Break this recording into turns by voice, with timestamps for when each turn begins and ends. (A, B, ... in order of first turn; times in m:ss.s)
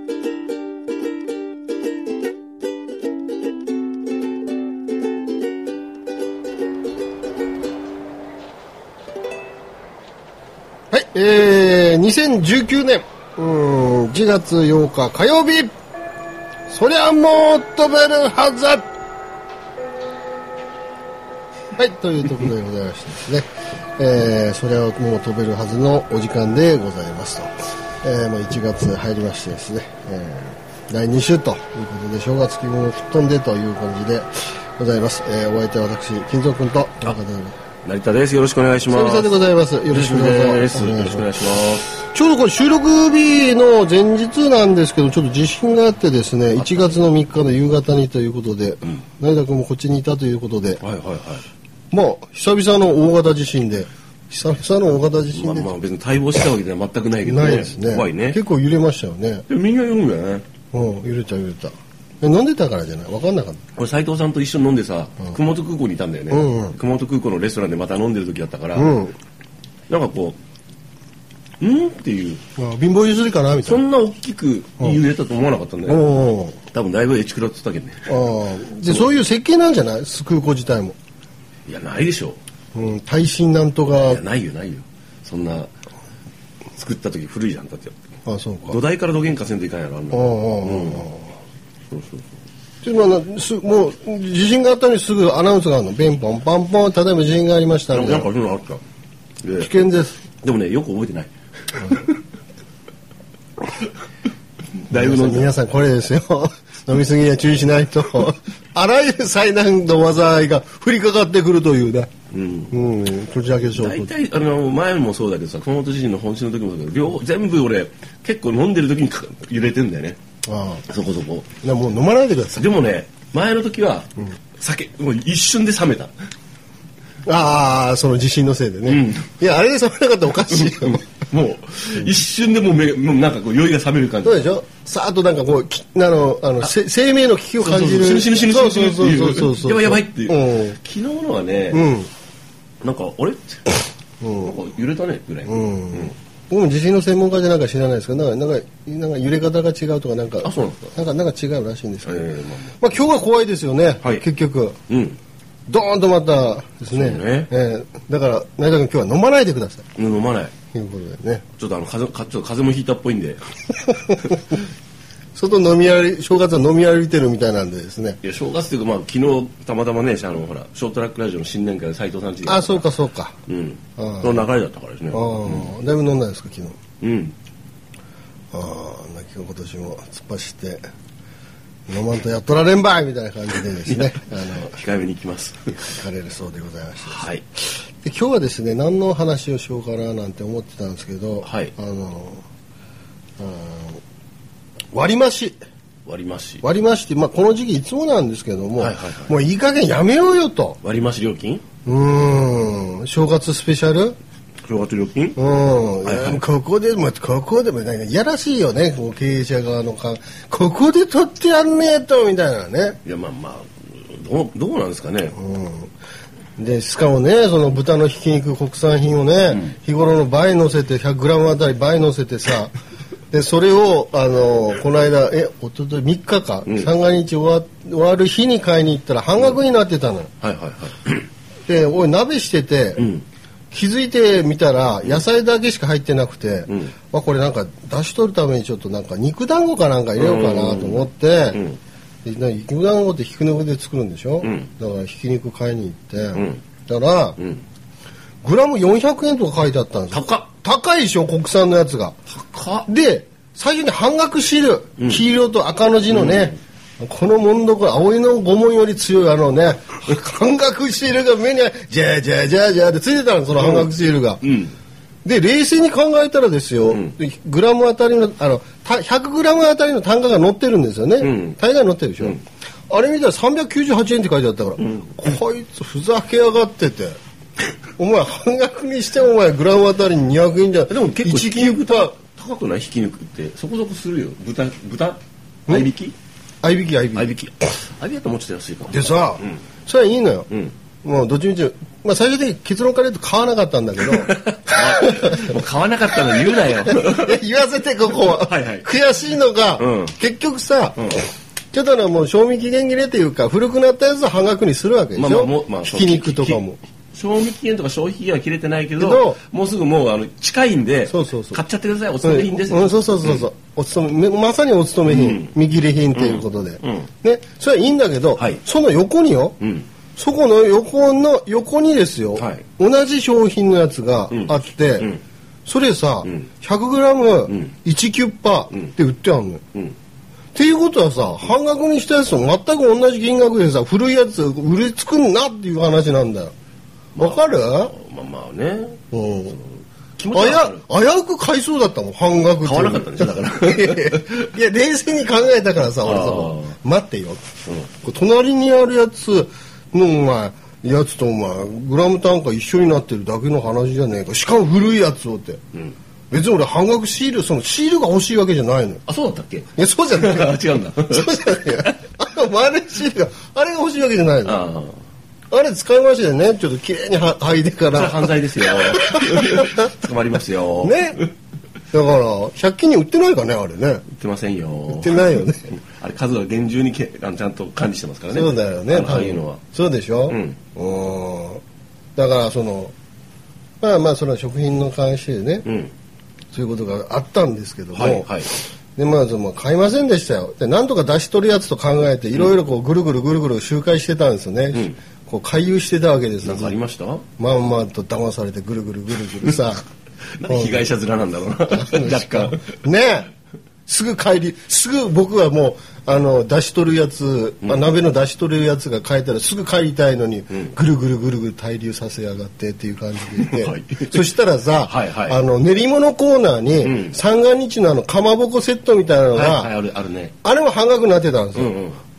0:10.9-0:15.7 A
0:16.7-0:18.9 A
0:21.8-0:23.5 A
0:24.0-0:27.5 A
0:28.0-0:37.6 A
0:37.8-0:39.4 B
0:38.9-0:41.3 A
0:39.9-0:42.0 B
0:42.0-0:50.8 A
0:50.8-0:51.4 B
0:51.9-0:55.7 A
0:55.3-0:58.4 B
0:57.2-0:59.4 A
0:59.5-1:00.4 B
1:00.7-1:03.6 A
1:03.7-1:09.0 B
1:06.3-1:06.8 A
1:08.7-1:09.1 A
1:09.9-1:10.4 B
1:11.6-1:12.4 B
1:12.6-1:13.8 A
1:13.6-1:16.1 B
1:15.8-1:16.6 A
1:16.6-1:18.2 B
1:18.1-1:21.0 A
1:21.7-1:22.4 B
1:22.7-1:24.2 A
1:24.0-1:25.7 B
1:26.8-1:28.0 B
1:28.2-1:28.8 A
1:28.7-1:31.1 B
1:30.1-1:31.3 A
1:31.9-1:32.3 B
1:32.8-1:38.3 A
1:37.9-1:38.8 B
1:39.4-1:39.9 B
1:39.6-1:40.2 A
1:40.4-1:42.1 B
1:44.9-1:45.5 B
1:44.9-1:52.1 A
1:52.3-1:52.8 B
1:52.7-1:54.1 A
1:53.7-2:00.2 B
2:00.4-2:00.8 A
2:00.8-2:01.6 B
2:01.6-2:02.7 A
2:02.5-2:06.1 B
2:07.2-2:11.0 A
2:08.9-2:09.3 B
2:10.5-2:14.6 B
2:14.2-2:20.8 A
2:17.6-2:21.9 B
2:21.7-2:22.1 A
2:22.8-2:23.8 B
2:24.2-2:24.6 A
2:24.4-2:26.1 B
2:25.5-2:32.2 A
2:30.4-2:31.0 B
2:32.0-2:32.8 B
2:32.8-2:34.8 A
2:34.9-2:35.2 B
2:35.7-2:39.9 A
2:36.9-2:37.5 B
2:40.0-2:40.5 B
2:40.7-2:41.4 A
2:41.5-2:43.4 B
2:45.3-2:48.2 A
2:48.2-2:52.9 B
2:52.4-2:53.4 A
2:53.5-2:55.7 B
2:54.0-2:54.5 A
2:55.1-2:56.8 A
2:57.0-2:57.4 B
2:58.5-3:00.8 A
3:01.9-3:04.8 A
3:03.9-3:05.9 B
3:05.9-3:12.4 A
3:07.0-3:07.4 B
3:11.4-3:11.7 B
3:13.4-3:14.0 A
3:14.9-3:15.6 A
3:16.0-3:16.6 B
3:16.6-3:20.8 A
3:18.8-3:19.4 B
3:20.8-3:21.6 B
3:21.8-3:24.2 A
3:24.6-3:25.4 B
3:25.4-3:33.0 A
3:26.0-3:26.4 B
3:33.0-3:35.4 B
3:35.3-3:35.9 A
3:36.6-3:42.7 A
3:43.3-3:50.3 A
3:50.4-3:51.3 B
3:51.7-3:53.1 A
3:53.0-3:53.2 B
3:53.7-4:01.6 A
3:56.7-3:56.9 B
4:00.2-4:01.8 B
4:02.2-4:07.4 A
4:04.4-4:04.7 B
4:06.3-4:06.6 B
4:08.4-4:12.1 A
4:10.1-4:10.5 B
4:12.3-4:12.9 B
4:12.8-4:24.4 A
4:15.0-4:15.2 B
4:16.1-4:16.6 B
4:23.6-4:23.9 B
4:24.4-4:24.7 B
4:25.2-4:37.2 A
4:26.9-4:27.1 B
4:31.2-4:31.6 B
4:34.8-4:35.2 B
4:38.0-4:42.1 A
4:40.9-4:46.1 B
4:46.6-4:47.4 A
4:47.1-4:49.6 B
4:48.9-4:50.5 A
4:51.0-4:55.5 A
4:54.1-4:57.4 B
4:56.3-5:06.8 A
4:58.4-4:58.9 B
4:59.8-5:00.2 B
5:05.2-5:13.5 B
5:09.0-5:09.4 A
5:11.1-5:11.6 A
5:12.2-5:19.6 A
5:15.0-5:15.6 B
5:16.1-5:17.1 B
5:18.4-5:18.6 B
5:19.6-5:19.9 B
5:20.2-5:25.1 A
5:22.4-5:22.7 B
5:24.3-5:25.2 B
5:25.6-5:29.6 A
5:30.5-5:36.5 A
5:37.2-5:40.8 B
5:37.2-5:37.9 A
5:39.1-5:39.6 A
5:40.3-5:47.4 A
5:42.6-5:44.4 B
5:46.0-5:46.7 B
5:48.0-5:55.6 A
5:56.3-5:59.0 A
5:59.0-6:02.0 B
5:59.8-6:04.6 A
6:04.4-6:05.0 B
6:05.5-6:09.9 A
6:07.9-6:11.3 B
6:10.8-6:11.2 A
6:11.9-6:14.0 A
6:14.1-6:19.6 B
6:14.9-6:15.7 A
6:18.3-6:21.6 A
6:20.3-6:20.6 B
6:22.2-6:22.9 A
6:23.8-6:25.7 A
6:25.6-6:25.9 B
6:26.5-6:28.4 A
6:27.9-6:28.5 B
6:29.0-6:36.8 A
6:36.4-6:37.3 B
6:37.4-6:39.8 A
6:40.4-6:42.7 B
6:40.5-6:40.9 A
6:41.7-6:43.3 A
6:43.9-6:59.7 A
6:47.6-6:47.9 B
6:53.4-6:54.2 B
6:54.8-6:55.4 B
6:56.8-6:57.2 B
6:59.3-7:00.4 B
7:00.4-7:01.8 A
7:01.5-7:02.0 B